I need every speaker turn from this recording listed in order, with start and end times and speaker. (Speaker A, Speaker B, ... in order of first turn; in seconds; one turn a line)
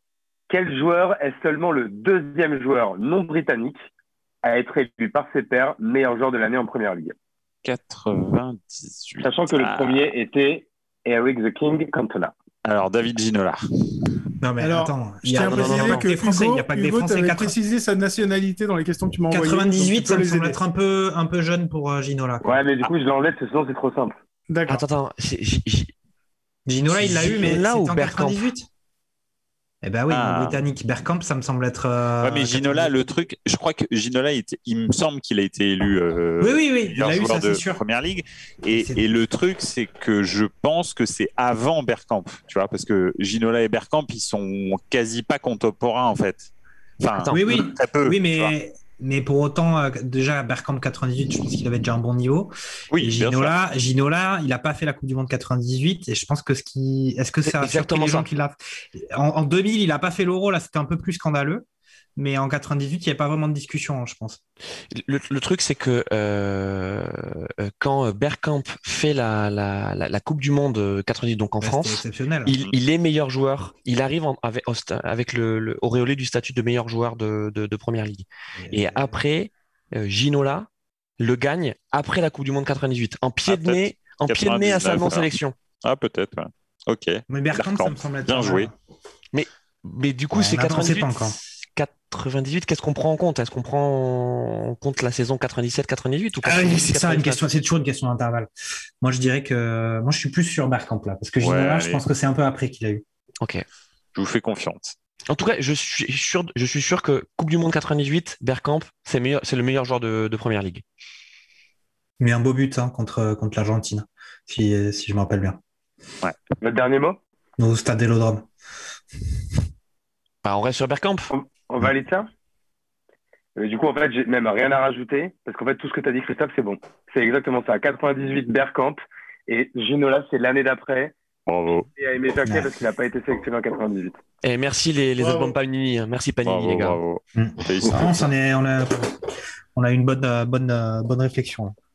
Speaker A: 0.5-3.8
Speaker A: 4.4-7.2
Speaker B: 7.6-10.1
Speaker A: 9.2-12.3
Speaker B: 12.7-13.7
Speaker C: 14.4-17.6
Speaker D: 14.6-20.6
Speaker E: 15.4-16.1
Speaker C: 19.3-22.6
Speaker A: 22.4-24.2
Speaker D: 24.5-24.9
Speaker E: 24.7-25.9
Speaker C: 26.7-28.7
Speaker E: 26.9-28.5
Speaker C: 29.8-33.1
Speaker B: 30.1-30.6
Speaker B: 32.2-46.5
Speaker C: 36.4-37.8
Speaker C: 38.7-39.0
Speaker B: 47.0-48.5
Speaker E: 47.1-47.6
Speaker C: 47.3-61.7
Speaker B: 52.9-53.6
Speaker E: 57.4-58.3
Speaker C: 62.2-64.4
Speaker E: 64.9-80.7
Speaker C: 71.6-72.6
Speaker C: 78.6-79.2
Speaker E: 81.2-85.5
Speaker B: 83.5-85.3
Speaker B: 85.8-88.7
Speaker C: 87.3-88.7
Speaker E: 89.3-97.5
Speaker C: 90.3-91.4
Speaker C: 96.4-98.5
Speaker C: 99.0-103.0
Speaker B: 101.4-102.0
Speaker B: 104.2-104.9
Speaker E: 105.3-110.8
Speaker C: 112.2-115.6
Speaker A: 116.6-117.2
Speaker C: 117.6-118.5
Speaker E: 120.4-121.3
Speaker A: 121.3-122.3
Speaker A: 123.6-131.1
Speaker B: 131.5-131.9
Speaker A: 132.0-134.2
Speaker C: 132.4-132.7
Speaker E: 134.4-137.0
Speaker D: 135.2-135.6
Speaker B: 136.4-138.3
Speaker C: 137.3-139.1
Speaker C: 139.8-141.8